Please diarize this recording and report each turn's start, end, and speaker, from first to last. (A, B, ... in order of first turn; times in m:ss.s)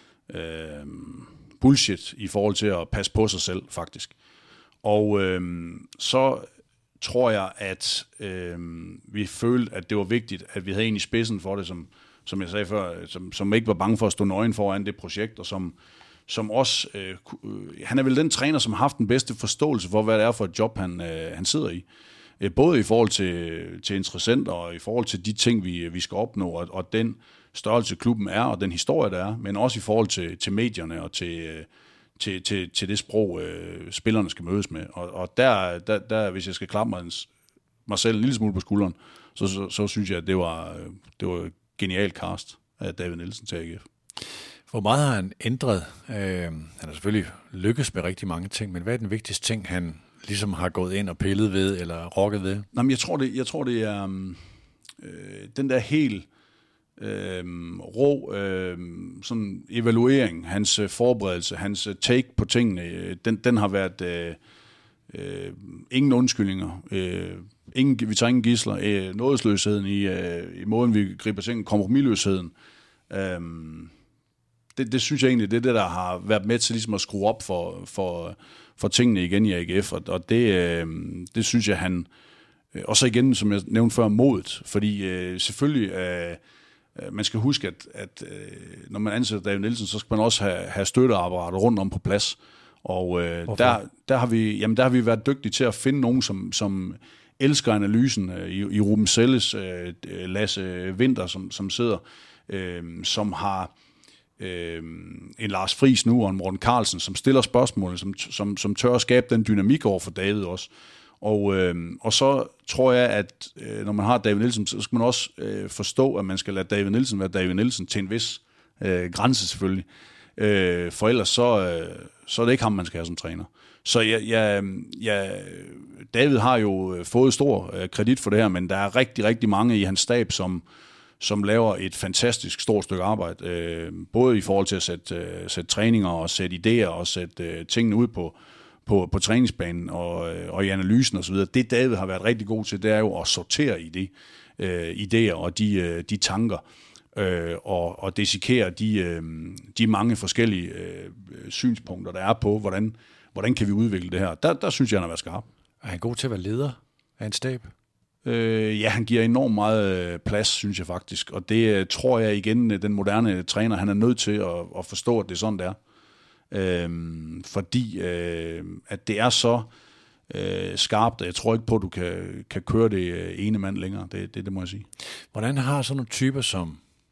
0:00.3-0:04.1 A
0:04.8-0:06.5 A
0:07.0-0:15.8 A
0:16.3-0:21.8 A
0:22.4-0:31.7 A
0:32.2-0:37.3 A
0:37.9-0:43.8 A
0:44.7-0:52.7 B
0:52.7-0:54.4 A
0:55.0-0:56.3 A
0:57.0-1:04.4 A
1:05.1-1:12.5 A
1:13.1-1:13.9 A
1:14.8-1:22.1 A
1:22.7-1:26.4 A
1:27.0-1:43.7 A
1:33.5-1:33.8 B
1:44.4-1:50.7 A
1:51.2-2:10.6 A
2:11.2-2:26.6 A
2:27.2-2:35.5 A
2:35.8-2:37.7 B
2:38.2-2:45.8 A
2:46.5-2:49.7 A
2:50.3-2:54.9 A
2:55.3-2:56.8 B